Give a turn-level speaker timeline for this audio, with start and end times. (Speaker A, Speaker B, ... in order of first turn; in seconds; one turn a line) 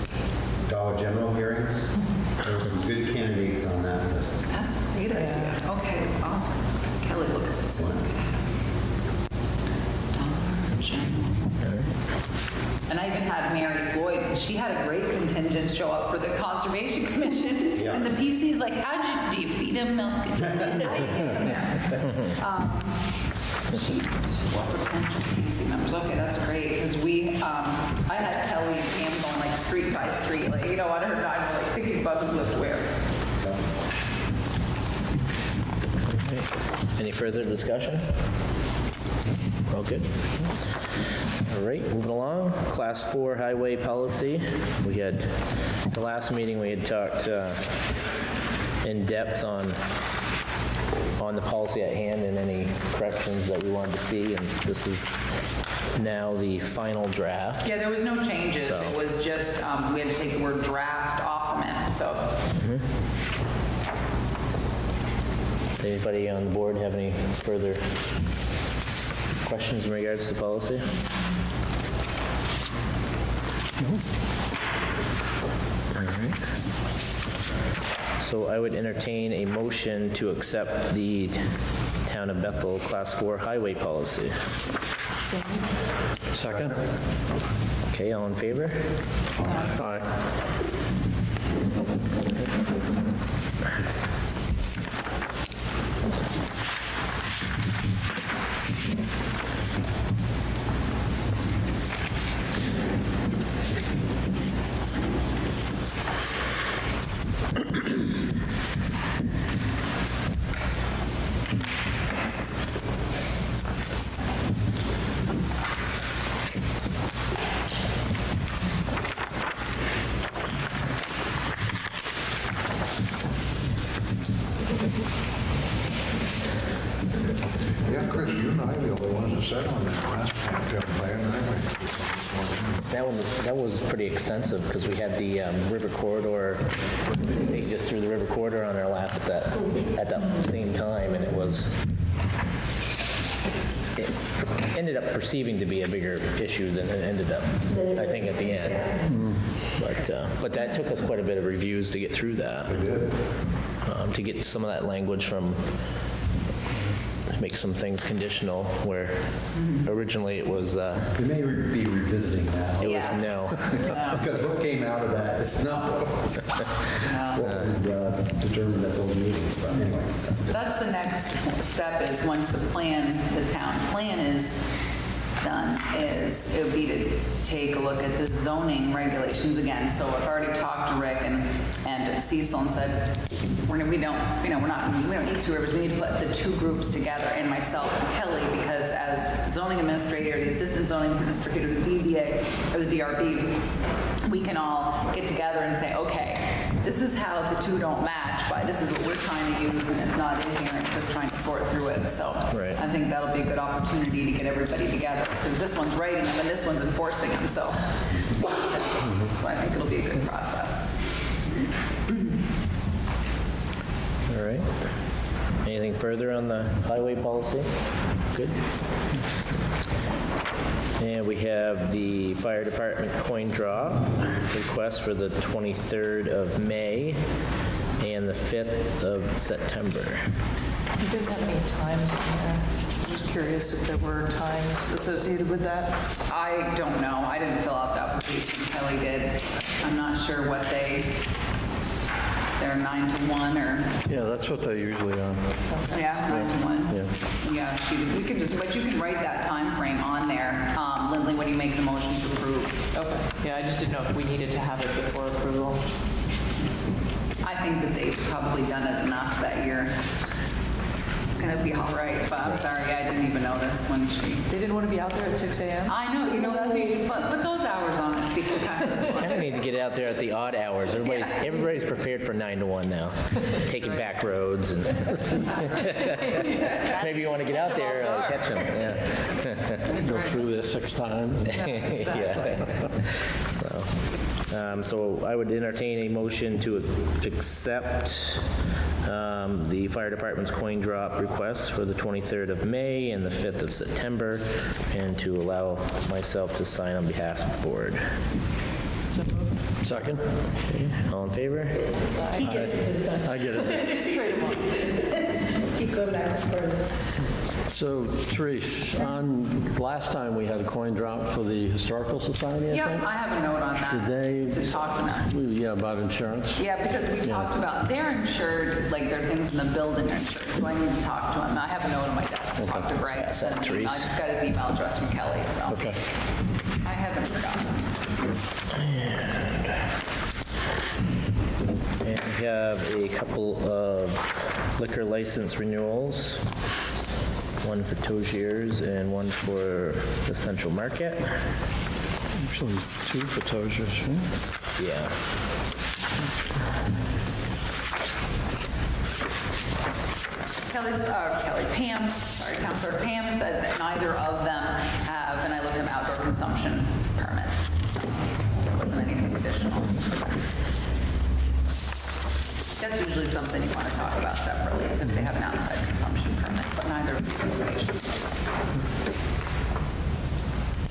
Speaker A: 0.6-4.5
Speaker B: 4.5-8.2
Speaker C: 5.1-5.7
Speaker B: 10.1-11.6
Speaker B: 12.9-23.1
Speaker A: 17.7-18.0
Speaker A: 20.5-20.8
Speaker B: 23.7-32.9
Speaker D: 36.1-38.1
Speaker D: 39.7-40.1
Speaker D: 41.4-47.7
Speaker D: 48.8-49.8
Speaker D: 51.2-55.2
Speaker D: 55.9-57.7
Speaker B: 57.6-62.3
Speaker D: 58.6-58.9
Speaker D: 62.5-62.8
Speaker D: 65.8-67.9
Speaker D: 69.4-70.9
Speaker D: 75.9-76.4
Speaker D: 78.2-81.5
Speaker D: 82.0-84.4
Speaker C: 85.2-85.7
Speaker E: 86.3-86.8
Speaker D: 87.9-88.9
Speaker E: 89.4-90.1
Speaker F: 127.8-132.8
Speaker D: 132.9-141.7
Speaker D: 143.9-149.0
Speaker G: 147.7-149.1
Speaker E: 149.0-149.5
Speaker D: 149.7-152.8
Speaker F: 152.7-153.1
Speaker D: 153.8-155.6
Speaker D: 157.3-161.1
Speaker B: 159.5-159.8
Speaker A: 161.1-166.7
Speaker D: 162.8-163.9
Speaker B: 162.8-164.2
Speaker B: 167.0-167.4
Speaker A: 167.3-170.6
Speaker D: 167.4-167.7
Speaker B: 170.5-174.6
Speaker B: 175.4-193.6
Speaker B: 194.2-207.8
Speaker D: 202.5-202.8
Speaker B: 208.4-210.9
Speaker D: 214.3-214.7
Speaker D: 215.6-217.7
Speaker D: 218.3-218.6
Speaker D: 221.0-227.2
Speaker D: 228.0-230.2
Speaker C: 231.0-236.0
Speaker B: 236.2-241.2
Speaker B: 242.6-244.0
Speaker E: 244.1-247.1
Speaker C: 245.7-246.2
Speaker B: 245.9-252.9
Speaker C: 252.9-255.9
Speaker B: 257.4-260.0
Speaker B: 261.4-264.5
Speaker C: 264.5-266.0
Speaker B: 265.9-269.4
Speaker D: 269.2-279.8
Speaker C: 273.7-274.0
Speaker C: 275.4-279.1
Speaker E: 279.9-281.9
Speaker C: 280.0-280.3
Speaker D: 281.6-283.9
Speaker B: 281.9-282.8
Speaker D: 284.5-288.4
Speaker D: 289.0-298.0
Speaker C: 299.1-300.1
Speaker E: 299.8-301.0
Speaker D: 300.9-301.9
Speaker C: 302.2-302.8
Speaker G: 302.2-307.0
Speaker E: 302.4-303.8
Speaker C: 303.6-304.9
Speaker E: 307.6-313.1
Speaker B: 312.7-315.3
Speaker E: 313.9-316.6
Speaker B: 316.6-325.9
Speaker E: 317.2-317.5
Speaker E: 322.6-322.9
Speaker D: 323.1-324.1
Speaker E: 325.7-326.0
Speaker B: 326.8-327.9
Speaker D: 328.8-329.9
Speaker D: 332.0-336.5
Speaker D: 337.6-341.4
Speaker E: 342.4-344.3
Speaker D: 344.8-345.1
Speaker B: 350.7-360.4
Speaker B: 362.8-368.4